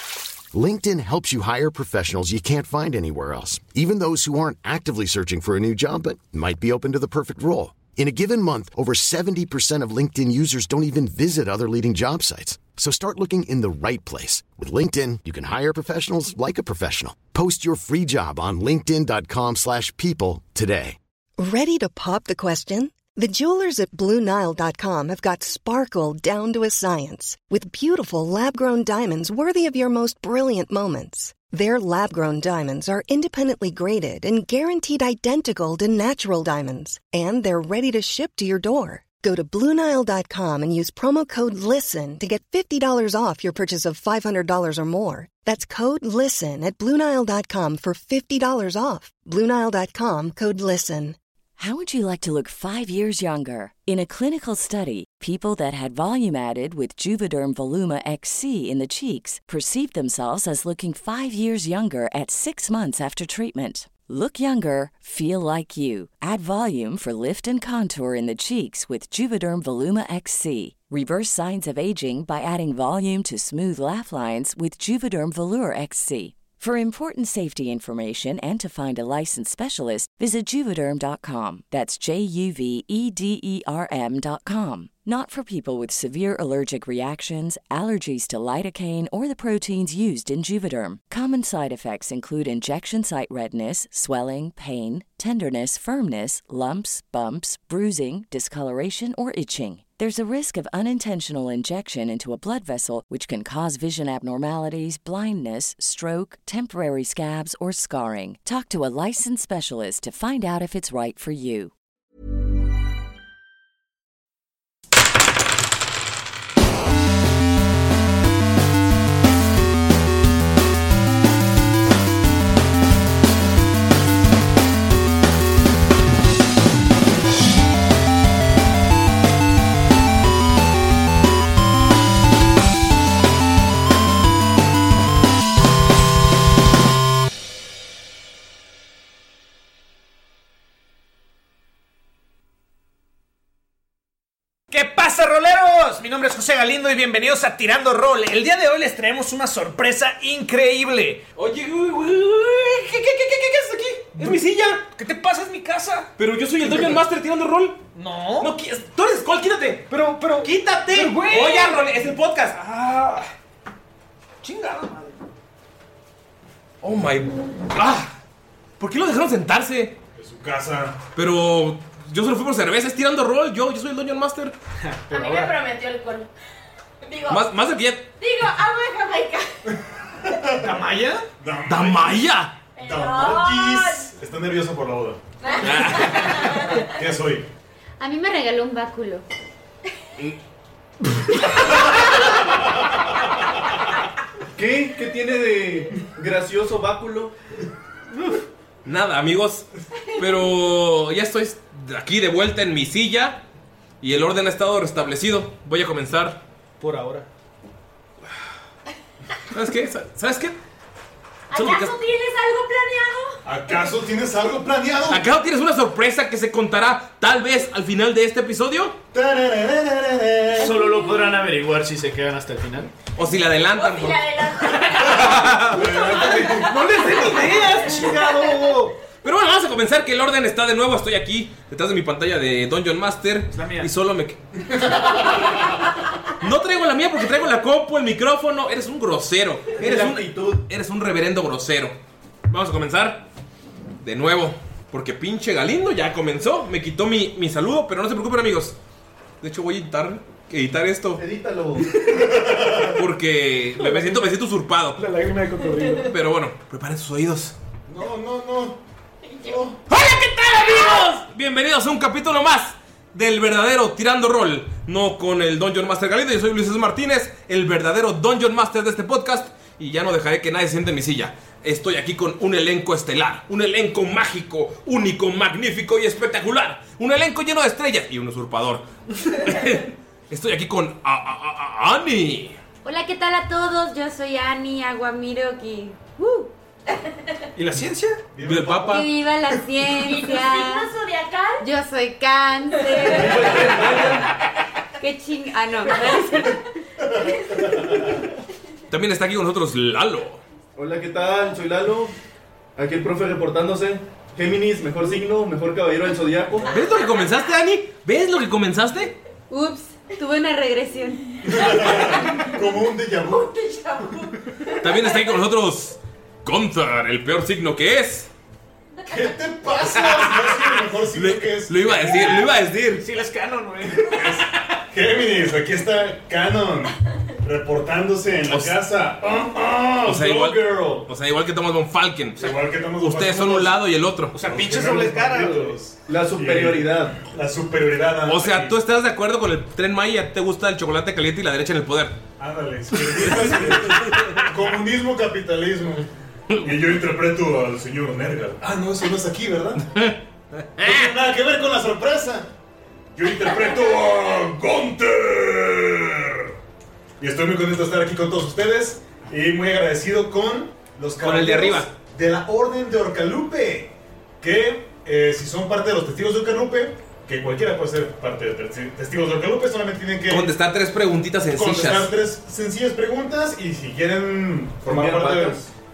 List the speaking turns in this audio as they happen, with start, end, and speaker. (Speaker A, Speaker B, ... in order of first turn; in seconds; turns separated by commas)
Speaker A: 0.5-21.0, Speaker B: 21.4-51.2, Speaker C: 51.6-111.7, Speaker D: 144.7-151.2, Speaker E: 151.4-154.8, Speaker D: 154.1-156.1, Speaker E: 156.2-157.8, Speaker D: 156.6-157.0, Speaker D: 157.9-158.6, Speaker E: 158.4-159.9, Speaker D: 159.8-162.0, Speaker E: 160.4-162.6, Speaker D: 162.6-163.3, Speaker D: 164.4-165.2, Speaker E: 166.8-168.1, Speaker E: 168.8-170.0, Speaker F: 170.2-171.0, Speaker E: 171.2-174.6, Speaker D: 174.8-175.5, Speaker G: 175.1-176.3, Speaker G: 177.0-177.5, Speaker E: 177.3-178.1, Speaker G: 178.2-179.5, Speaker F: 180.2-180.7, Speaker D: 180.6-181.3, Speaker F: 181.4-182.2, Speaker E: 181.7-182.5, Speaker G: 182.8-184.1, Speaker F: 182.8-185.2, Speaker G: 185.4-186.8, Speaker E: 185.6-186.5, Speaker F: 186.8-187.5, Speaker H: 188.0-189.2, Speaker I: 194.6-197.3, Speaker E: 198.8-203.4, Speaker E: 204.0-206.4, Speaker D: 206.8-207.3, Speaker E: 209.5-210.6, Speaker G: 211.5-213.4, Speaker E: 211.5-212.0, Speaker F: 213.4-215.2, Speaker E: 215.1-219.0, Speaker F: 219.1-220.7, Speaker D: 220.6-222.9, Speaker G: 220.6-221.4, Speaker E: 223.2-224.2, Speaker G: 223.6-228.7, Speaker D: 224.7-229.0, Speaker E: 225.1-225.6, Speaker F: 225.7-227.2, Speaker E: 229.2-234.4, Speaker D: 233.5-233.9, Speaker E: 236.4-242.0, Speaker I: 239.8-240.6, Speaker E: 242.5-243.2, Speaker E: 244.0-248.8, Speaker E: 249.4-251.2, Speaker I: 251.2-251.9, Speaker F: 252.2-253.0, Speaker E: 253.0-255.0, Speaker D: 253.8-254.3, Speaker D: 255.0-256.1, Speaker E: 256.0-257.6, Speaker F: 257.9-258.8, Speaker G: 259.2-259.8, Speaker F: 259.5-259.7, Speaker E: 259.9-282.6, Speaker G: 260.7-260.9, Speaker H: 282.8-286.5, Speaker D: 287.6-288.2, Speaker F: 288.3-289.1, Speaker E: 288.4-289.1, Speaker H: 288.9-290.9, Speaker G: 290.0-291.7, Speaker H: 291.6-293.9, Speaker I: 293.1-294.3, Speaker F: 293.6-294.0, Speaker H: 295.0-296.6, Speaker G: 295.8-296.5, Speaker F: 297.0-298.2, Speaker E: 298.9-300.4, Speaker I: 300.8-302.1, Speaker I: 302.8-306.7, Speaker E: 306.7-309.1, Speaker H: 309.5-311.8, Speaker F: 311.4-313.5, Speaker G: 311.6-312.2, Speaker G: 313.2-315.4, Speaker E: 314.8-318.3, Speaker F: 319.1-322.5, Speaker E: 319.9-323.1, Speaker D: 323.0-324.4, Speaker F: 324.1-331.1, Speaker E: 328.5-328.8, Speaker E: 330.1-334.4, Speaker F: 332.4-333.8, Speaker D: 334.3-335.8, Speaker F: 334.4-338.8, Speaker I: 336.1-337.2, Speaker E: 338.3-342.2, Speaker F: 342.4-346.1, Speaker E: 343.2-344.4, Speaker F: 346.6-350.1, Speaker E: 350.8-351.1, Speaker F: 350.8-352.5, Speaker F: 353.1-356.5, Speaker F: 357.2-370.5, Speaker E: 361.2-361.9, Speaker E: 370.3-372.1, Speaker F: 371.6-375.6, Speaker I: 374.8-375.7